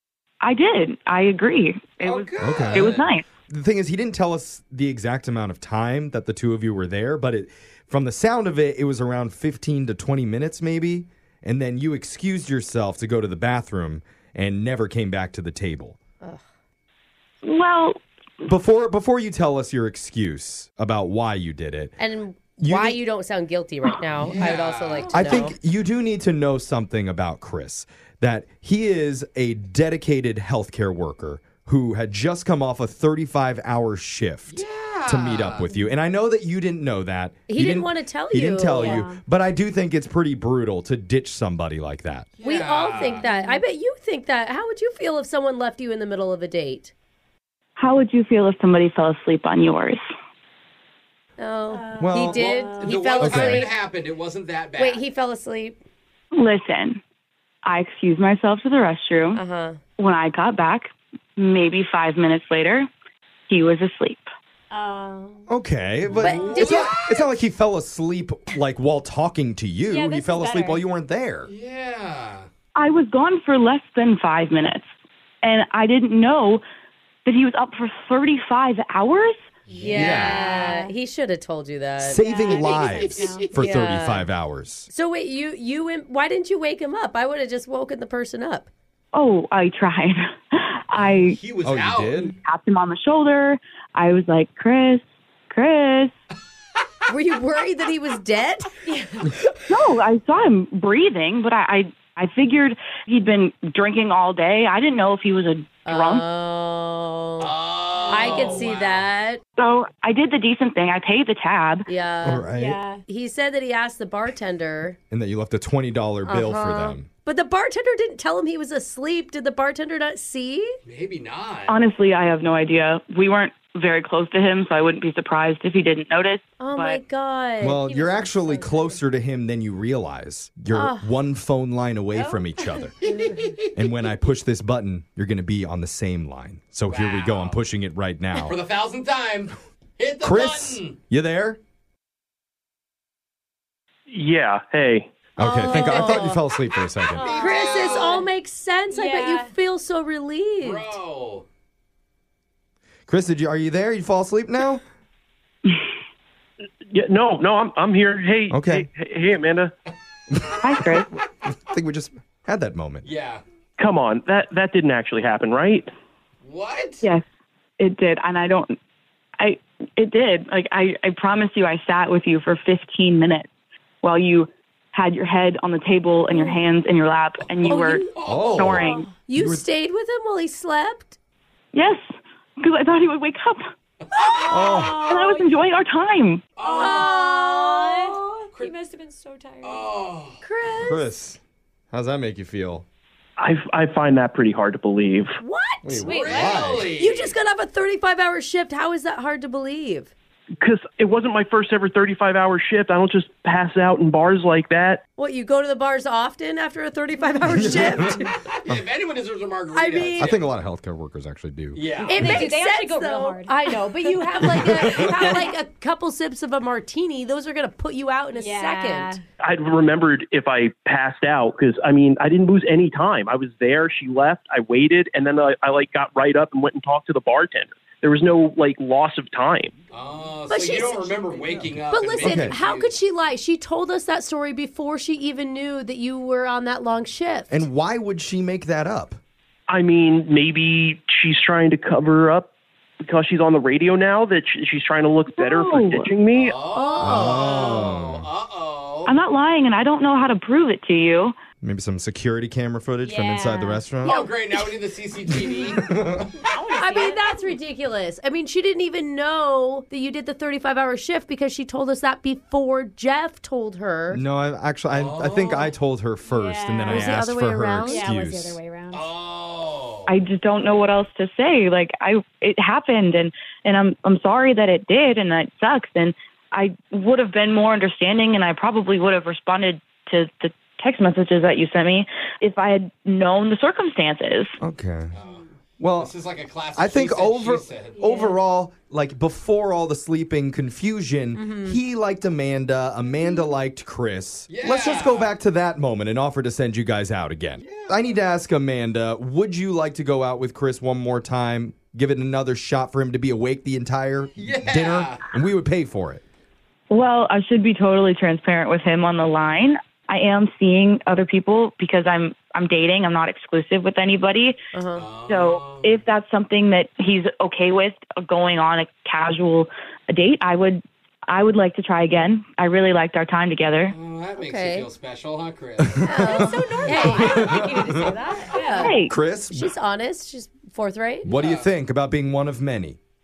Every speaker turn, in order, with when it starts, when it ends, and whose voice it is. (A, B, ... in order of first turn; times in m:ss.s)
0:00.4-0:03.3 A
0:02.0-0:03.1 B
0:02.4-0:16.0 C
0:17.4-0:18.0 A
0:18.4-0:21.9 C
0:22.0-0:25.6 D
0:22.6-0:23.0 C
0:24.1-0:25.5 B
0:25.1-0:42.3 C
0:34.5-0:35.7 B
0:37.5-0:39.0 D
0:38.8-0:39.2 E
0:42.4-0:43.2 B
0:42.4-0:46.9 D
0:43.2-0:43.6 E
0:47.8-0:50.0 A
0:51.4-0:53.7 D
0:51.7-0:52.9 E
0:52.0-0:52.4 C
0:52.3-0:55.0 B
0:53.2-0:53.6 C
0:54.8-0:55.8 D
0:56.3-0:57.0 A
0:57.6-0:59.4 A
0:59.3-0:59.8 D
1:00.0-1:02.9 A
1:03.5-1:04.3 A
1:04.7-1:05.4 E
1:05.5-1:11.5 C
1:06.1-1:07.0 B
1:06.2-1:07.0 D
1:09.9-1:10.8 E
1:11.4-1:12.5 B
1:12.7-1:14.9 A
1:15.4-1:16.6 A
1:17.2-1:19.4 A
1:19.7-1:20.2 B
1:19.8-1:22.3 D
1:19.9-1:20.9 E
1:20.0-1:20.6 C
1:22.0-1:24.9 C
1:22.2-1:23.5 E
1:23.5-1:24.3 D
1:24.9-1:28.7 D
1:29.1-1:31.4 A
1:31.0-1:32.3 B
1:31.6-1:32.3 C
1:32.3-1:36.1 A
1:37.1-1:38.7 D
1:38.9-1:39.2 E
1:39.7-1:46.2 A
1:45.9-1:47.5 D
1:47.4-1:49.1 B
1:48.0-1:48.7 E
1:48.1-1:49.4 D
1:49.6-1:51.8 A
1:51.9-1:52.5 D
1:52.2-1:52.8 C
1:52.5-1:53.0 E
1:53.0-1:55.0 D
1:55.1-1:57.1 C
1:56.3-2:00.7 D
2:00.8-2:01.8 B
2:01.7-2:07.0 A
2:06.6-2:07.8 D
2:07.6-2:12.9 C
2:07.8-2:09.0 E
2:10.7-2:11.0 D
2:12.2-2:12.8 E
2:13.0-2:13.4 B
2:13.7-2:18.6 C
2:16.9-2:17.6 B
2:18.4-2:21.0 B
2:20.2-2:21.6 C
2:24.1-2:25.1 F
2:25.4-2:27.3 C
2:25.4-2:26.4 D
2:27.1-2:28.2 E
2:27.1-2:28.3 B
2:27.3-2:31.0 D
2:28.9-2:29.5 E
2:30.6-2:31.4 B
2:33.1-2:34.8 C
2:36.9-2:39.7 F
2:38.5-2:38.9 C
2:40.6-2:41.1 A
2:41.0-2:43.1 C
2:43.0-2:43.4 B
2:43.8-2:45.9 F
2:46.4-2:47.0 B
2:47.8-2:48.8 A
2:49.4-2:53.5 A
2:54.0-2:59.0 A
2:57.4-2:58.8 B
2:57.7-2:58.1 D
2:58.2-2:58.8 C
2:58.8-2:59.1 E
2:59.0-3:01.2 D
2:59.4-2:59.6 C
3:01.7-3:03.7 A
3:04.2-3:04.7 B
3:04.2-3:05.6 E
3:04.5-3:05.1 C
3:05.0-3:06.5 A
3:06.6-3:07.2 B
3:06.6-3:09.9 E
3:06.8-3:08.4 D
3:09.6-3:10.4 B
3:10.4-3:11.0 D
3:10.8-3:11.4 C
3:11.9-3:12.8 C
3:13.4-3:15.4 F
3:15.4-3:16.0 D
3:15.8-3:16.9 C
3:16.0-3:17.4 B
3:16.0-3:16.7 E
3:17.0-3:20.1 D
3:20.6-3:25.0 F
3:25.2-3:28.2 D
3:27.5-3:28.8 C
3:28.4-3:30.4 B
3:29.7-3:30.4 D
3:30.2-3:32.4 C
3:31.7-3:32.4 B
3:32.1-3:39.2 D
3:32.1-3:35.4 E
3:34.4-3:35.4 C
3:38.4-3:39.2 E
3:39.4-3:49.7 F
3:49.9-3:52.9 B
3:50.5-3:51.4 D
3:51.6-3:52.6 C
3:51.9-3:57.6 D
3:57.5-3:59.2 C
3:59.7-4:02.5 F
4:03.0-4:06.6 F
4:05.4-4:06.1 A
4:06.3-4:09.1 B
4:06.7-4:07.8 D
4:07.0-4:08.3 C
4:09.0-4:11.4 A
4:11.6-4:14.2 C
4:13.0-4:14.1 E
4:14.0-4:16.3 B
4:15.8-4:16.3 C
4:16.4-4:17.4 E
4:16.8-4:24.2 D
4:24.1-4:28.6 C
4:24.9-4:25.7 B
4:26.3-4:27.2 E
4:26.9-4:28.0 D
4:27.9-4:29.1 E
4:28.9-4:30.1 B
4:30.1-4:44.6 A
4:44.6-4:45.1 C
4:45.1-4:45.4 B
4:45.8-4:46.1 C
4:46.0-4:48.0 B
4:46.7-5:06.2 C
4:48.0-4:48.3 E
4:51.4-4:51.8 D
4:54.5-4:55.3 B
4:57.6-4:58.0 B
5:04.4-5:05.2 B
5:06.9-5:14.6 A
5:14.7-5:15.0 D
5:15.0-5:16.0 B
5:15.2-5:24.0 A
5:23.9-5:26.1 B
5:24.4-5:24.9 D
5:25.8-5:28.1 C
5:26.0-5:31.3 D
5:26.2-5:29.0 E
5:28.8-5:29.1 A
5:29.1-5:29.7 C
5:31.2-5:33.0 C
5:31.3-5:31.7 B